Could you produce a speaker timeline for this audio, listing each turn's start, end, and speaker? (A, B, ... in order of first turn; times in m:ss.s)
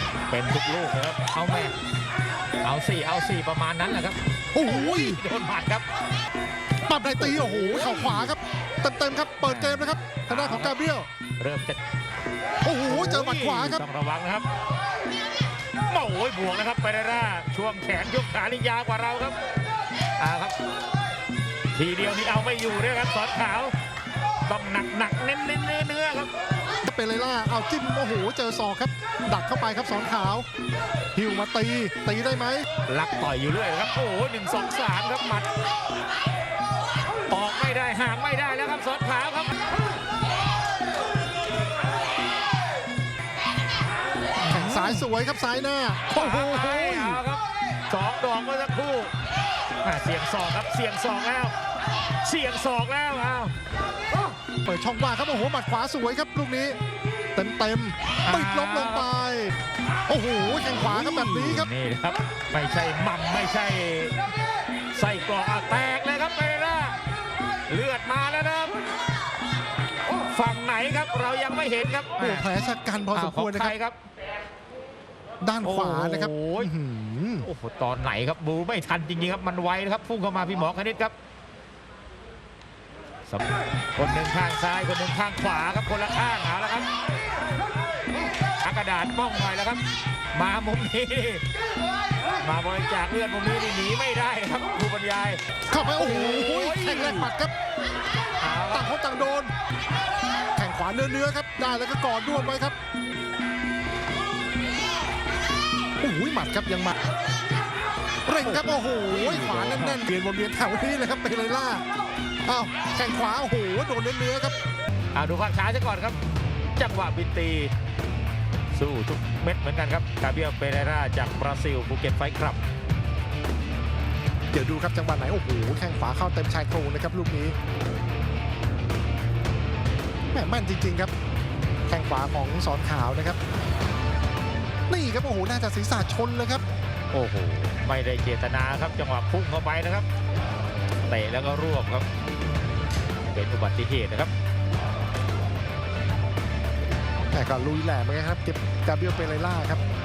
0:00.3-0:01.7 A
0:02.6-0:05.8 A
0:04.5-0:05.2 B
0:06.8-0:11.1 B
0:07.1-0:08.3 A
0:09.4-0:10.8 A
0:11.4-0:11.8 A
0:12.6-0:13.8 B
0:12.9-0:14.5 A
0:15.9-0:19.4 A
0:20.2-0:20.6 A
0:21.7-0:23.7 A
0:24.4-0:26.3 A
0:26.8-0:30.4 B
0:31.1-0:32.7 B
0:32.9-0:35.5 A
0:37.3-0:39.6 A
0:44.4-0:45.1 A
0:44.5-0:47.2 B
0:46.1-0:49.1 A
0:49.8-0:51.5 A
0:52.2-0:53.5 A
0:54.6-0:56.8 B
0:57.3-0:59.6 B
0:58.2-0:59.1 A
1:00.1-1:01.7 B
1:00.5-1:04.2 A
1:04.9-1:07.0 A
1:07.7-1:08.8 A
1:10.1-1:12.5 A
1:12.2-1:13.8 B
1:13.1-1:14.0 A
1:15.4-1:17.5 B
1:15.6-1:16.7 A
1:17.4-1:21.1 A
1:23.3-1:26.9 A
1:28.6-1:29.8 A
1:30.3-1:31.4 A
1:32.4-1:35.4 A
1:35.7-1:37.5 B
1:36.0-1:37.3 A
1:38.4-1:38.9 A
1:38.7-1:39.5 B
1:40.6-1:42.8 B
1:46.0-1:47.0 B
1:48.2-1:51.8 B
1:48.4-1:50.0 A
1:52.4-1:54.6 B
1:55.1-1:56.2 A
1:56.8-1:57.7 A
1:58.7-2:02.6 A
2:04.5-2:07.6 B
2:10.3-2:11.1 B
2:11.9-2:13.4 B
2:14.9-2:16.6 B
2:17.1-2:20.1 A
2:21.0-2:22.1 A
2:23.3-2:24.3 A
2:27.3-2:29.8 B